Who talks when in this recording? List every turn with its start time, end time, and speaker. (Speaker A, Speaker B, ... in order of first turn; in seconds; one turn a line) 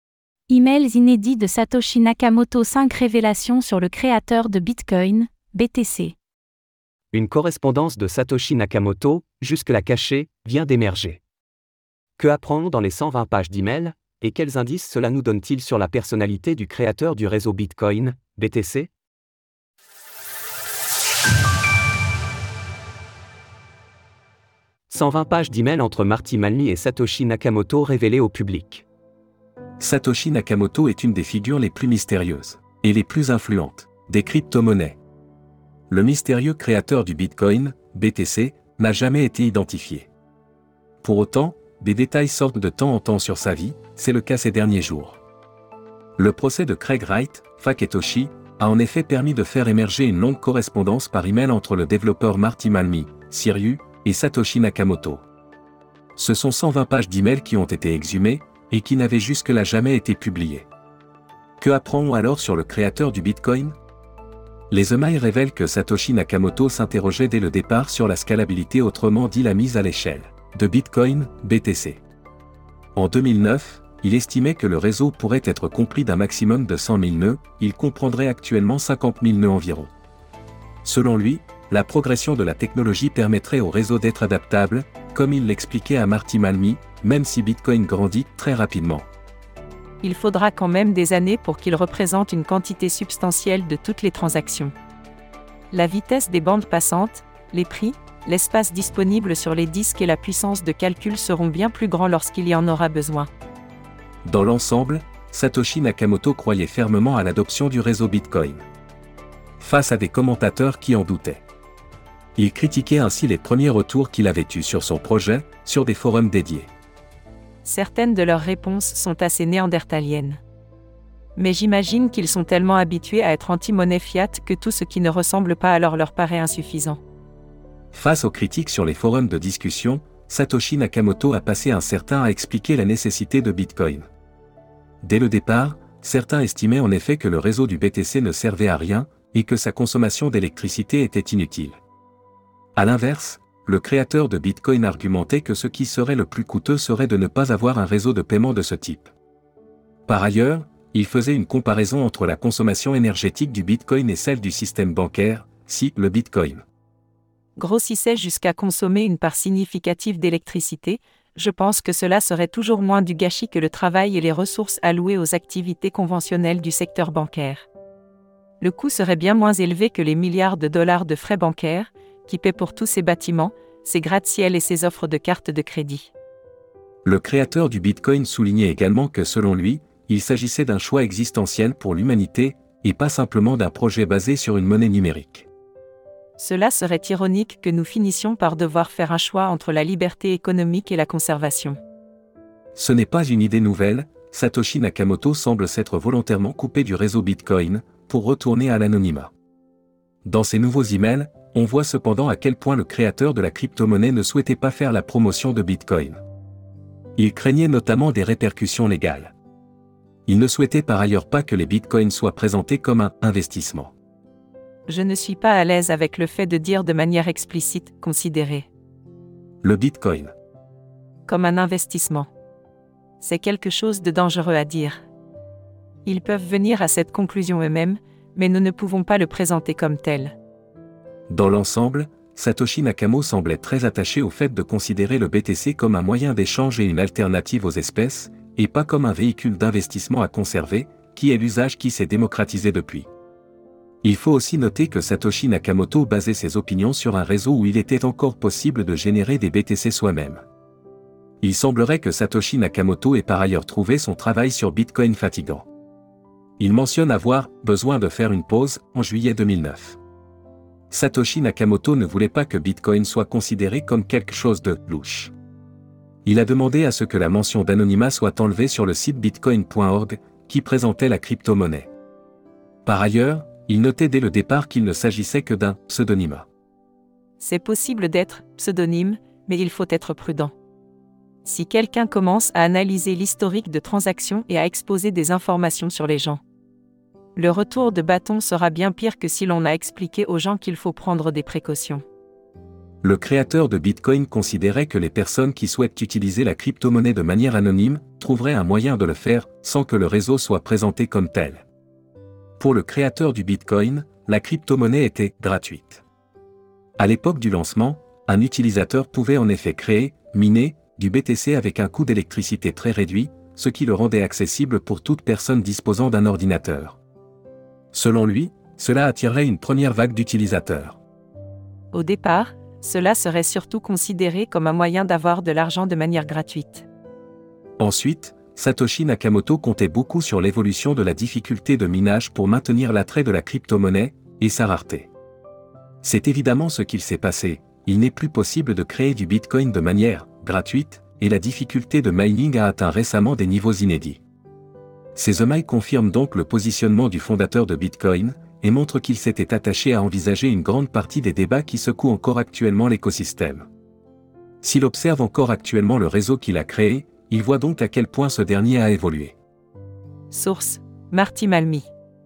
Speaker A: 0.5-6.1
Speaker B: 7.1-11.2
Speaker B: 12.2-18.9
Speaker B: 24.9-28.8
Speaker C: 29.8-35.0
Speaker C: 35.9-40.1
Speaker C: 41.0-45.2
Speaker C: 46.2-55.2
Speaker C: 56.1-60.7
Speaker C: 61.6-63.7
Speaker C: 64.7-72.0
Speaker C: 72.9-79.9
Speaker C: 80.8-89.1
Speaker D: 90.0-94.7
Speaker D: 95.7-103.3
Speaker C: 104.2-108.6
Speaker C: 109.6-111.4
Speaker C: 112.3-116.7
Speaker D: 117.6-120.4
Speaker D: 121.3-127.0
Speaker C: 127.9-134.1
Speaker C: 135.0-141.8
Speaker C: 142.8-149.1
Speaker C: 150.1-156.6
Speaker D: 157.6-167.7
Speaker D: 168.6-176.1
Speaker C: 177.0-185.5
Speaker D: 186.4-191.8
Speaker C: 192.7-199.3
Speaker C: 200.2-206.2
Speaker C: 207.2-209.3
Speaker C: 210.2-213.9
Speaker D: 214.9-218.7
Speaker C: 219.6-220.3
Speaker D: 221.3-222.3
Speaker D: 223.2-225.0
Speaker D: 226.0-230.3
Speaker C: 231.3-243.1
Speaker C: 244.0-250.4
Speaker C: 251.4-255.7
Speaker C: 256.6-260.0
Speaker C: 260.9-265.3
Speaker C: 266.2-271.9
Speaker C: 272.8-276.4
Speaker D: 277.4-280.5
Speaker D: 281.4-286.4
Speaker D: 287.4-292.0
Speaker C: 293.0-301.6
Speaker C: 302.6-306.0
Speaker C: 307.0-317.0
Speaker C: 317.9-321.0
Speaker D: 321.9-326.9
Speaker C: 327.8-335.1
Speaker C: 336.0-344.2
Speaker C: 345.1-353.7
Speaker C: 354.6-359.3
Speaker D: 360.3-361.9